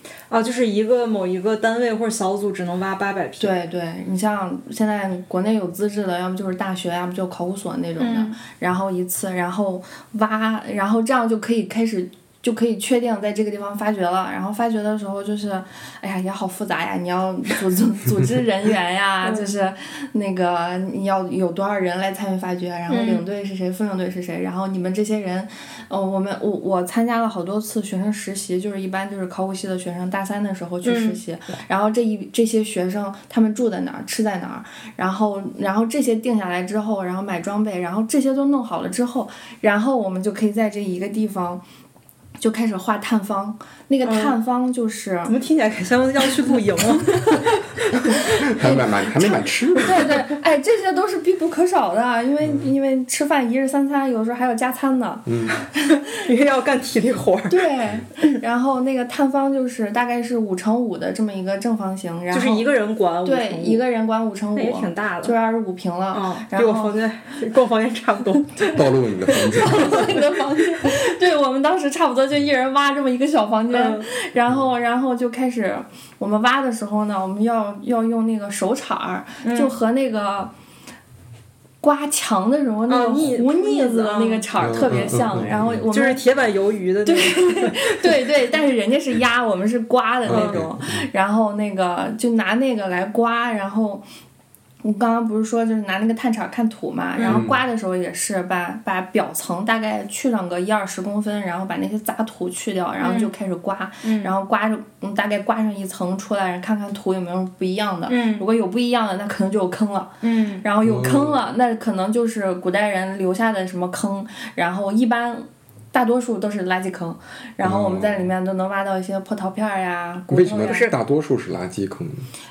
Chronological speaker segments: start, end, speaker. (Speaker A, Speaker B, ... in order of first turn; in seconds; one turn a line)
Speaker A: 0.3-3.5
Speaker B: 3.4-41.6
Speaker A: 8.0-8.3
Speaker A: 19.2-19.5
Speaker A: 22.9-23.2
Speaker A: 30.8-31.2
Speaker B: 42.4-45.4
Speaker A: 44.0-44.4
Speaker A: 45.3-48.1
Speaker B: 47.0-47.5
Speaker B: 48.1-55.3
Speaker C: 48.2-50.1
Speaker C: 52.4-52.7
Speaker C: 55.3-55.6
Speaker A: 55.6-57.7
Speaker B: 57.5-62.7
Speaker A: 62.3-63.8
Speaker B: 63.2-67.0
Speaker A: 64.5-65.3
Speaker A: 66.1-71.0
Speaker C: 68.7-70.2
Speaker B: 69.5-80.5
Speaker A: 73.7-74.1
Speaker A: 79.4-79.8
Speaker B: 81.8-86.2
Speaker A: 82.9-85.1
Speaker C: 84.6-85.9
Speaker A: 85.9-88.3
Speaker B: 87.0-94.0
Speaker C: 90.3-91.1
Speaker A: 90.3-90.6
Speaker B: 94.8-120.9
Speaker A: 97.2-97.4
Speaker C: 97.3-97.6
Speaker A: 103.0-103.3
Speaker A: 104.0-104.3
Speaker A: 108.1-108.5
Speaker A: 110.2-110.7
Speaker C: 110.8-111.4
Speaker C: 117.6-118.3
Speaker C: 120.3-122.3
Speaker A: 120.7-120.9